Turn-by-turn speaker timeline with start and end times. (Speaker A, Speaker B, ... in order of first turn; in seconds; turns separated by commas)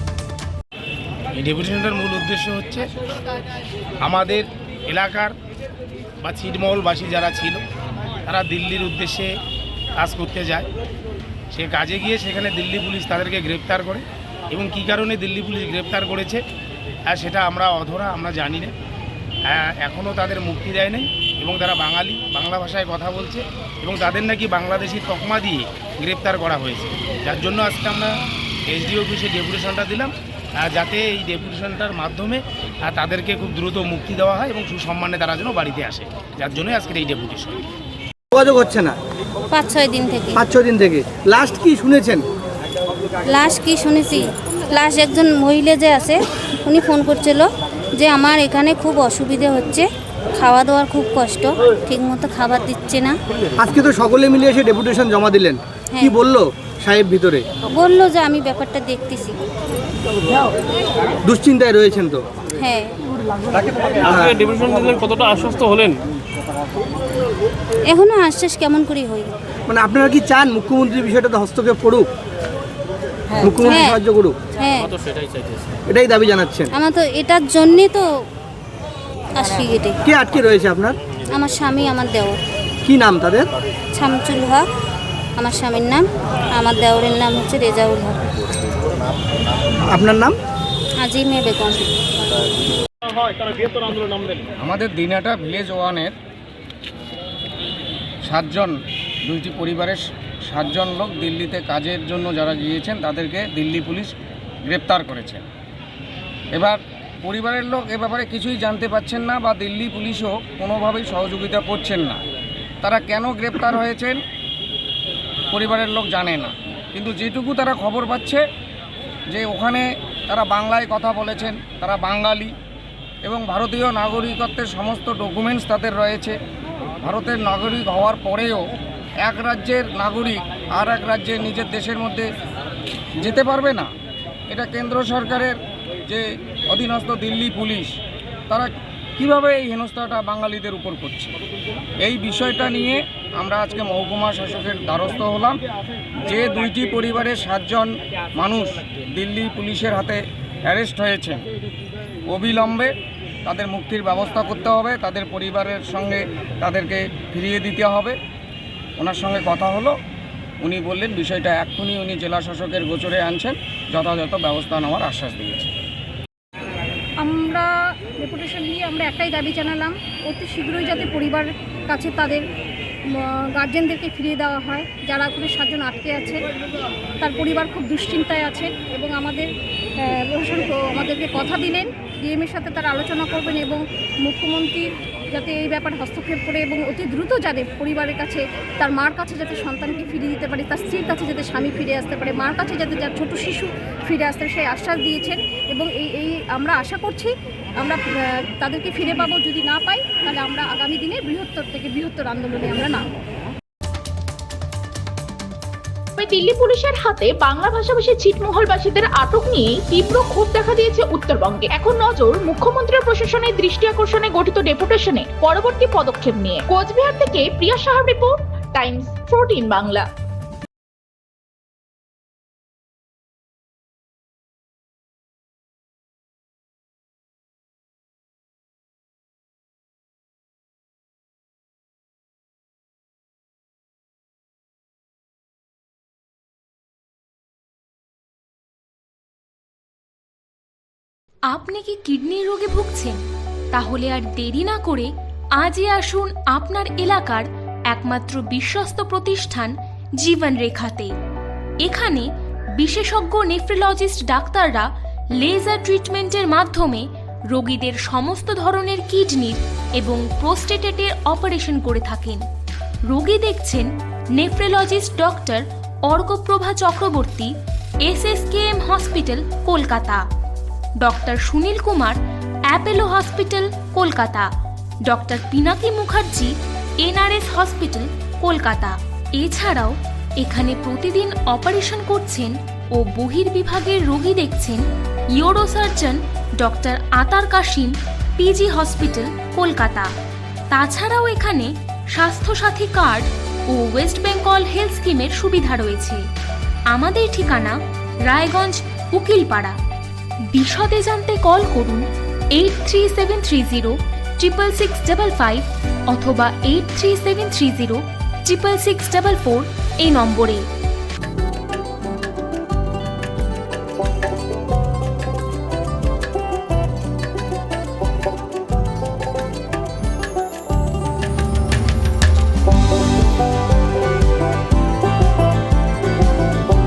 Speaker A: 1.4-2.9, Speaker A: 4.0-5.3, Speaker A: 6.2-7.6, Speaker A: 8.3-9.3, Speaker A: 10.0-10.7, Speaker A: 11.5-16.4, Speaker A: 17.1-18.7, Speaker A: 19.5-28.1, Speaker A: 28.7-37.6, Speaker B: 38.3-39.0, Speaker C: 39.5-40.4, Speaker B: 40.4-42.2, Speaker C: 43.3-53.2, Speaker B: 53.6-57.4, Speaker C: 57.8-59.4, Speaker B: 61.2-62.2, Speaker C: 62.6-62.9, Speaker B: 64.1-64.4, Speaker D: 64.3-66.0, Speaker C: 67.9-69.3, Speaker B: 69.7-72.1, Speaker B: 73.4-74.3, Speaker C: 73.6-74.0, Speaker C: 74.6-74.9, Speaker B: 75.9-76.7, Speaker C: 76.8-78.0, Speaker C: 79.4-80.0, Speaker B: 80.0-81.0, Speaker C: 81.3-82.4, Speaker B: 82.8-83.5, Speaker C: 83.9-84.7, Speaker C: 85.4-88.3, Speaker B: 89.9-90.4, Speaker C: 91.0-91.8, Speaker D: 93.3-94.4, Speaker E: 94.6-96.1, Speaker E: 98.2-98.8, Speaker E: 99.3-104.2, Speaker E: 104.7-105.4, Speaker E: 106.5-112.2, Speaker E: 112.8-114.2, Speaker E: 115.5-118.4, Speaker E: 119.3-122.5, Speaker E: 123.2-126.4, Speaker E: 127.0-128.7, Speaker E: 129.2-132.3, Speaker E: 133.2-133.9, Speaker E: 134.5-135.6, Speaker E: 136.1-138.0, Speaker E: 138.5-141.3, Speaker E: 142.0-145.6, Speaker E: 146.2-151.4, Speaker E: 152.3-152.9, Speaker E: 153.5-158.2, Speaker E: 159.0-159.9, Speaker E: 160.6-165.7, Speaker F: 167.2-167.7, Speaker F: 168.2-172.4, Speaker F: 173.6-176.4, Speaker F: 177.2-203.1, Speaker G: 206.2-220.1, Speaker H: 241.5-251.1, Speaker H: 251.8-262.4, Speaker H: 263.1-267.5, Speaker H: 268.0-270.2, Speaker H: 271.0-274.5, Speaker H: 275.1-284.8, Speaker H: 285.3-290.1, Speaker H: 290.7-296.3, Speaker H: 296.9-299.8, Speaker H: 300.5-310.7